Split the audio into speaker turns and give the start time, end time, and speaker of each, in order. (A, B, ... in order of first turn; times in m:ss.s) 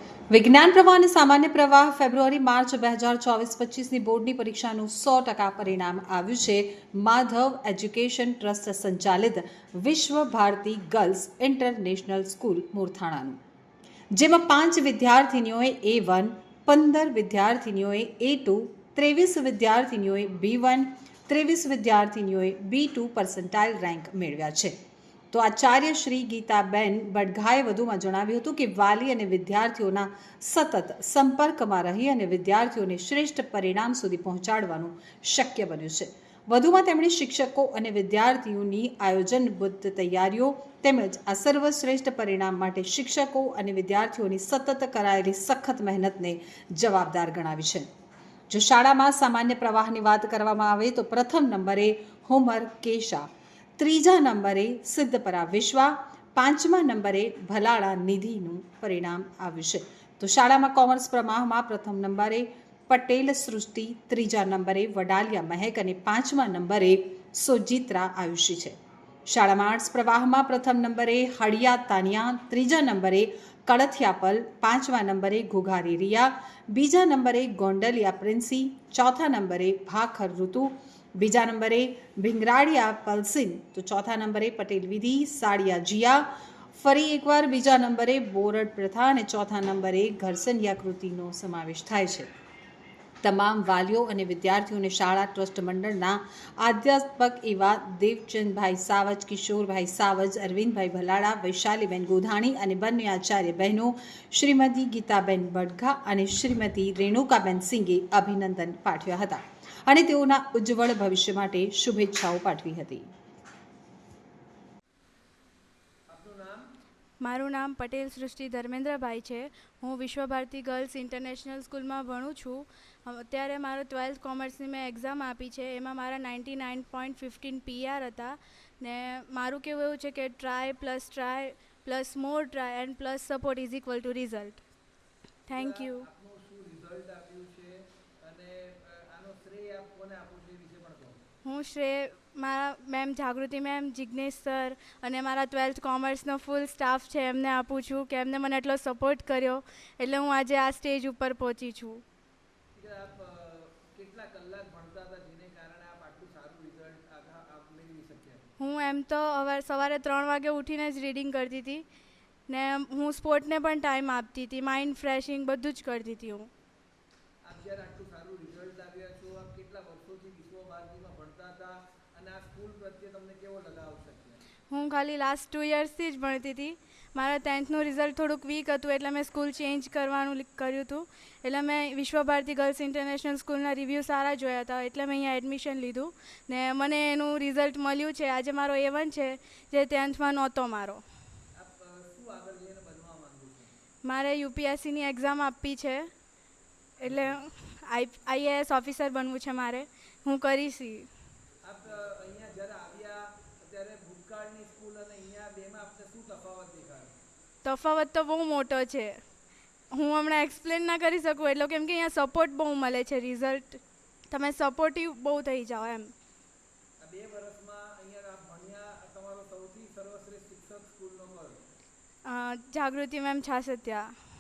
0:00.3-0:13.4 A
0:14.1-0:24.7 A
0:25.3-0:47.9 A
0:48.5-0:53.2 A
0:53.8-1:08.7 A
1:09.3-1:26.2 A
1:26.8-1:32.3 A
1:33.2-1:53.1 A
1:56.1-1:56.7 B
1:57.2-2:14.6 C
2:15.5-2:21.2 B
2:15.5-2:16.0 C
2:21.4-2:32.0 C
2:32.8-2:38.4 B
2:38.6-2:41.8 C
2:42.5-2:46.5 C
2:47.4-2:54.4 B
2:54.7-3:11.0 C
3:11.5-3:13.8 B
3:14.0-3:16.1 C
3:17.0-3:21.1 C
3:17.0-3:17.4 B
3:21.6-3:27.2 B
3:27.6-3:29.2 C
3:29.9-3:36.1 C
3:37.0-3:41.6 B
3:42.2-3:44.2 C